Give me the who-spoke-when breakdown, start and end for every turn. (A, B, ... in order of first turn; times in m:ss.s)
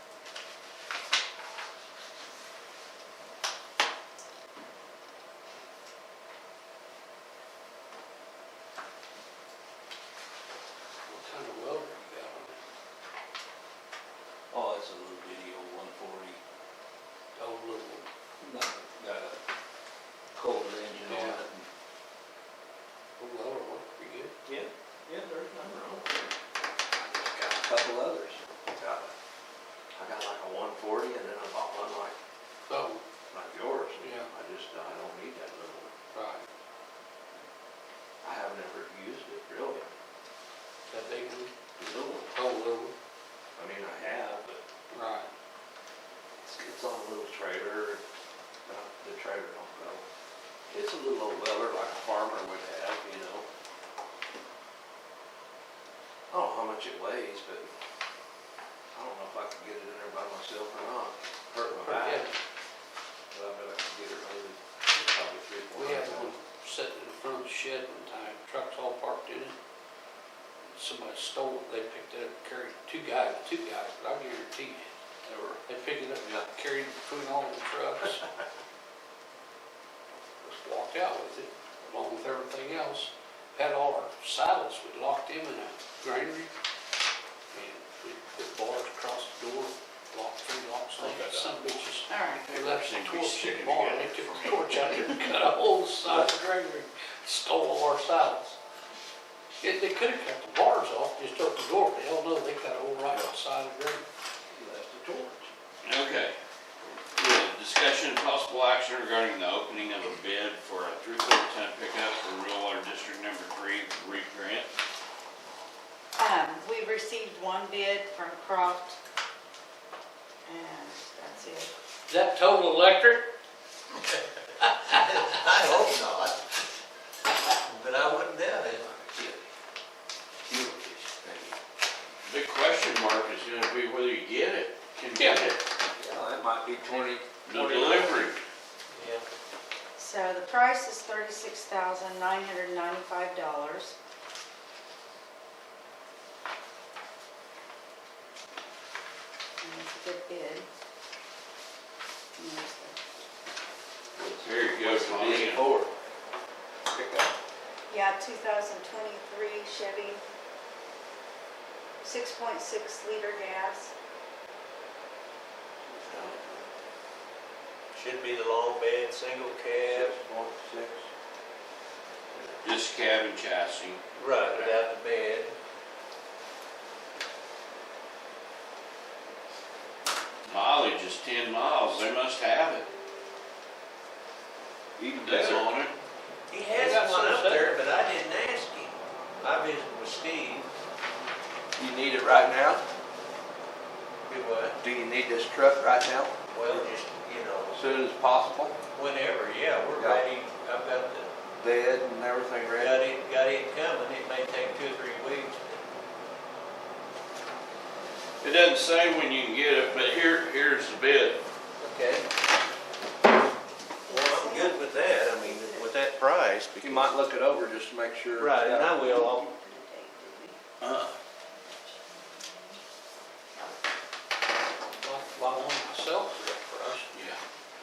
0:11.1-0:12.6 A
0:14.5-0:16.4 B
0:17.4-0:18.1 A
0:18.4-0:19.4 B
0:20.3-0:21.6 B
0:21.0-0:21.4 A
0:23.2-0:24.3 A
0:24.4-0:26.3 B
0:27.3-0:29.1 B
0:30.0-0:32.1 B
0:32.6-0:33.0 A
0:33.3-0:35.9 B
0:34.0-0:34.3 A
0:36.1-0:36.4 A
0:38.2-0:39.9 B
0:40.9-0:41.5 A
0:41.8-0:42.3 B
0:42.3-0:42.9 A
0:43.6-0:44.6 B
0:44.9-0:45.3 A
0:46.4-0:48.0 B
0:48.6-0:50.0 B
0:50.7-0:53.4 B
0:56.3-0:57.7 B
0:58.9-1:02.2 B
1:01.6-1:02.4 A
1:03.3-1:06.3 B
1:05.7-1:09.6 A
1:10.7-1:14.9 A
1:15.2-1:15.6 B
1:15.7-1:18.2 A
1:20.4-1:26.5 A
1:27.5-1:38.6 A
1:31.0-1:35.2 C
1:39.6-1:44.0 A
1:43.1-1:43.3 B
1:44.5-1:45.5 B
1:45.8-1:46.3 C
1:47.1-1:54.7 C
1:56.2-1:59.0 D
2:00.4-2:01.7 D
2:02.1-2:03.3 A
2:04.9-2:06.4 E
2:07.6-2:08.9 E
2:08.8-2:09.4 B
2:10.5-2:11.5 B
2:12.2-2:15.6 C
2:15.1-2:15.6 A
2:15.9-2:18.3 B
2:17.4-2:18.4 C
2:18.9-2:19.2 E
2:20.0-2:24.0 D
2:29.6-2:30.7 D
2:32.4-2:33.0 D
2:34.2-2:35.7 C
2:34.2-2:35.9 B
2:36.9-2:37.3 B
2:37.9-2:40.2 D
2:42.0-2:43.9 D
2:46.0-2:46.6 B
2:46.1-2:46.4 E
2:47.9-2:50.1 E
2:49.8-2:51.1 B
2:52.6-2:54.8 C
2:54.2-2:55.5 E
3:00.4-3:02.9 C
3:05.0-3:05.7 B
3:05.1-3:05.9 C
3:06.5-3:10.7 E
3:06.7-3:07.7 A
3:11.8-3:12.8 B
3:14.3-3:14.8 E
3:14.8-3:16.9 B
3:16.5-3:17.8 E
3:17.7-3:18.8 B
3:18.9-3:21.3 E
3:19.9-3:20.2 B
3:21.6-3:23.0 B
3:22.7-3:25.8 E
3:28.4-3:31.4 C
3:31.8-3:32.2 E
3:34.0-3:35.9 D
3:34.1-3:37.1 E
3:36.8-3:38.9 B
3:38.3-3:39.4 E
3:39.0-3:40.6 D
3:40.8-3:41.1 C
3:41.7-3:42.8 D
3:45.0-3:47.1 A
3:47.1-3:47.4 C